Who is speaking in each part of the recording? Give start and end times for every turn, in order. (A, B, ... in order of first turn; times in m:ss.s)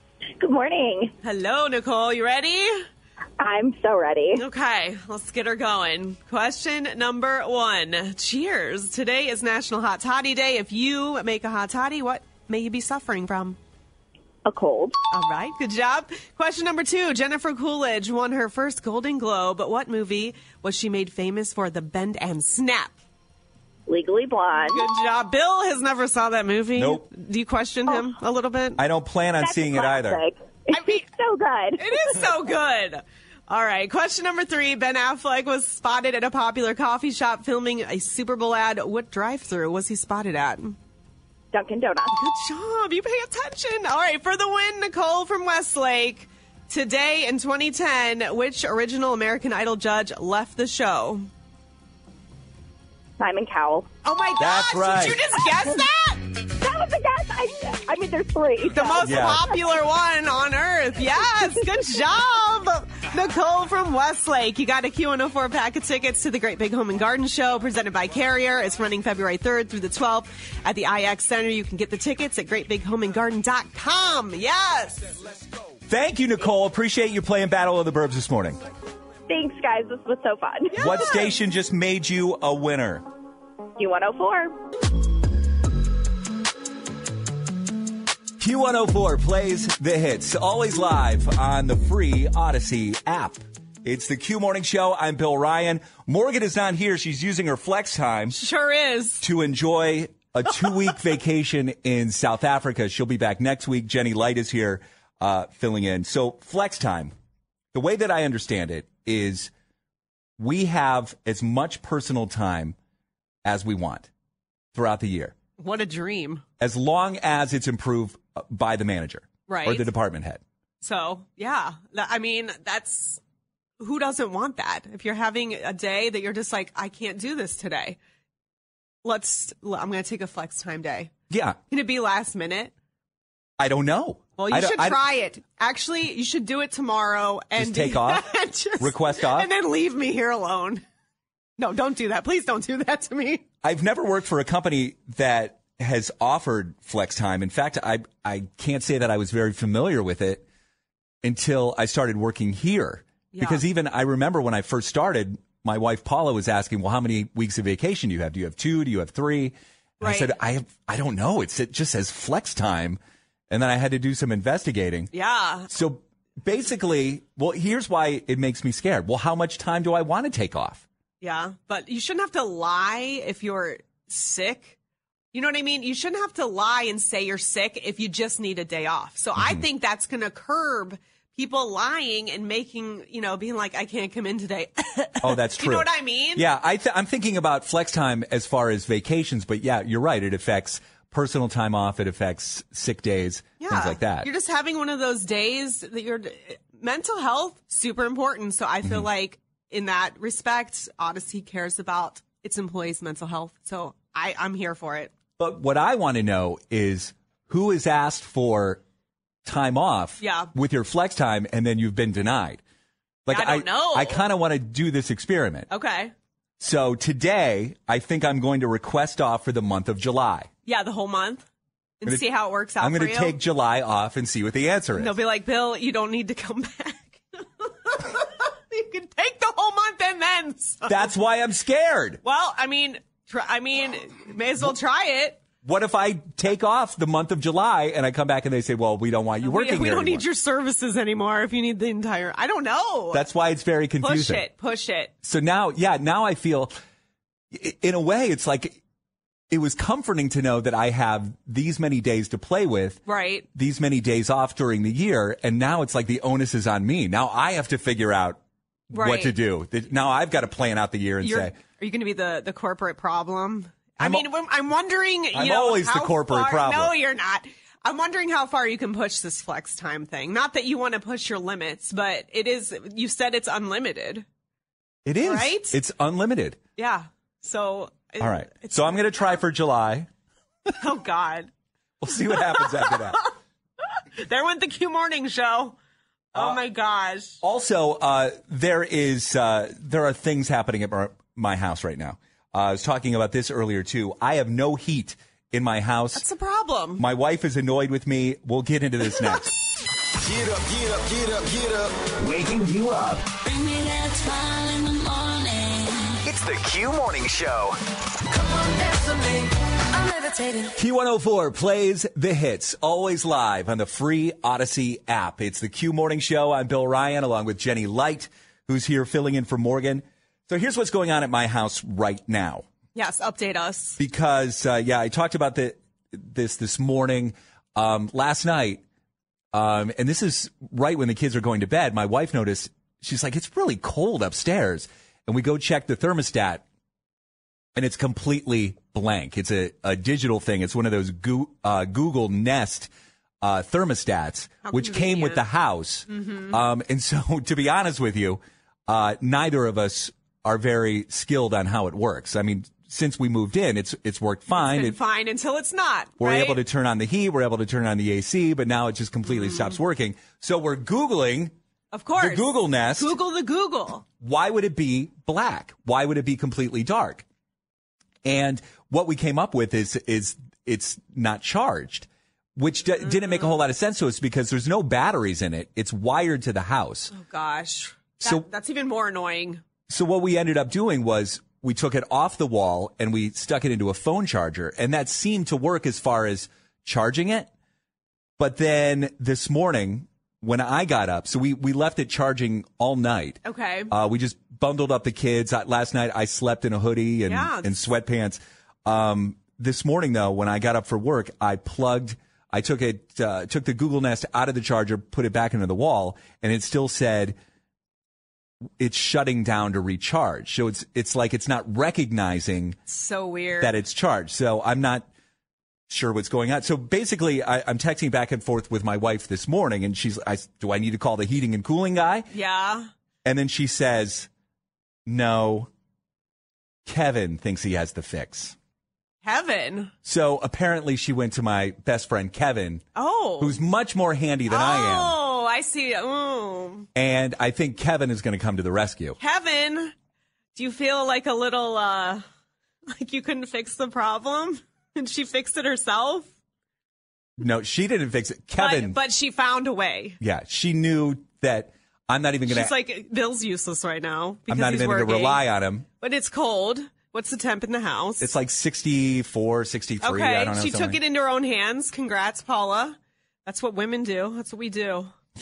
0:00.4-0:01.1 A
0:01.2-0:02.8 B
0:03.4-0:04.4 A
0:04.3-0:13.6 B
0:14.4-0:14.9 A
0:15.1-0:23.0 B
0:23.9-0:24.9 A
0:24.6-0:28.8 B
0:26.7-0:27.0 C
0:28.8-0:30.2 C
0:29.4-0:32.1 A
0:30.7-0:31.1 B
0:31.8-0:40.8 B
0:41.5-0:42.2 A
0:42.1-0:51.3 B
0:53.2-0:53.9 A
0:54.0-0:56.3 B
0:54.4-0:55.2 C
0:55.4-0:55.7 A
0:56.5-0:59.6 A
0:58.7-1:15.1 B
0:59.0-0:59.5 C
1:15.9-1:18.6 C
1:19.3-1:20.8 A
1:20.7-1:21.3 B
1:20.8-1:23.0 C
1:23.8-1:24.5 A
1:28.4-1:38.4 C
1:38.3-1:39.2 B
1:39.2-1:47.1 C
1:47.7-1:49.5 C
1:50.4-1:52.8 C
1:53.4-1:54.1 C
1:54.7-1:55.3 C
1:55.6-1:56.4 B
1:56.6-2:00.4 C
1:59.5-1:59.9 B
2:00.8-2:03.2 B
2:03.8-2:08.0 B
2:09.0-2:11.1 B
2:11.3-2:11.6 C
2:11.7-2:12.7 B
2:13.6-2:15.0 C
2:14.4-2:20.8 B
2:17.5-2:18.3 C
2:18.8-2:19.5 C
2:21.6-2:23.4 B
2:23.6-2:30.4 C
2:31.2-2:43.0 C
2:33.3-2:33.6 B
2:40.0-2:40.3 B
2:43.5-2:45.1 C
2:45.1-2:45.7 B
2:45.7-2:50.8 C
2:51.2-2:54.8 B
2:55.3-3:06.4 B
2:59.4-2:59.6 C
3:05.2-3:14.3 C
3:13.6-3:25.1 B
3:18.8-3:19.1 C
3:25.4-3:28.8 C
3:29.4-3:32.6 C
3:30.2-3:30.5 B
3:33.2-3:35.7 C
3:33.3-3:34.2 B
3:35.7-3:36.1 B
3:36.6-3:40.5 C
3:40.6-3:41.4 B
3:42.0-3:43.4 B
3:42.8-3:45.2 C
3:45.0-3:51.1 B
3:50.9-3:52.2 C
3:52.2-3:55.4 B
3:55.6-4:00.2 C
3:59.4-4:03.2 B
4:03.1-4:04.4 C
4:04.0-4:05.1 B
4:05.2-4:06.7 C
4:07.5-4:08.8 C
4:09.5-4:13.0 C
4:13.0-4:13.4 B
4:13.5-4:18.4 C
4:18.9-4:21.5 C
4:18.9-4:19.3 B
4:21.2-4:34.2 B
4:24.0-4:24.3 C
4:25.3-4:26.9 C
4:35.0-4:36.6 C
4:35.2-4:35.8 B
4:36.8-4:39.3 B
4:38.2-4:40.1 C
4:40.8-4:41.5 B
4:42.0-4:43.2 C
4:42.3-4:43.0 B
4:44.2-4:45.8 B
4:46.3-4:47.4 B
4:46.3-4:46.6 C
4:47.4-4:56.2 C
4:56.1-4:57.0 B
4:57.0-4:59.5 C
5:00.2-5:03.3 D
5:03.4-5:06.2 E
5:06.2-5:07.8 D
5:08.8-5:09.3 E
5:09.9-5:10.7 E
5:10.7-5:22.6 C
5:22.9-5:24.0 B
5:24.0-5:28.8 C
5:29.5-5:36.6 C
5:37.7-5:42.9 C
5:43.4-5:55.0 C
5:44.6-5:45.4 B
5:46.1-5:46.6 B
5:54.5-5:56.6 B
5:56.2-6:01.5 C
5:59.2-5:59.8 B
6:01.9-6:04.0 B
6:02.2-6:03.1 C
6:04.2-6:07.2 C
6:08.2-6:17.1 C
6:13.0-6:13.6 B
6:17.1-6:19.6 B
6:18.2-6:18.4 C
6:19.9-6:27.5 C
6:28.4-6:47.4 C
6:33.4-6:33.9 B
6:37.3-6:37.7 B
6:48.8-6:52.8 C
6:52.9-6:53.8 B
6:53.6-6:55.1 C
6:55.9-7:02.3 C
7:02.3-7:02.9 B
7:03.2-7:04.3 C
7:05.0-7:05.7 C
7:06.8-7:08.6 C
7:09.2-7:09.9 B
7:10.0-7:12.8 C
7:13.0-7:13.6 B
7:13.4-7:15.2 C
7:14.5-7:16.9 B
7:16.9-7:19.2 C
7:19.2-7:19.9 B
7:20.5-7:22.2 B
7:22.9-7:26.3 B
7:27.4-7:29.0 C
7:28.6-7:30.2 B
7:30.2-7:32.8 C
7:32.5-7:35.4 B
7:34.5-7:35.8 C
7:36.0-7:38.3 B
7:38.2-7:41.0 C
7:40.0-7:45.1 B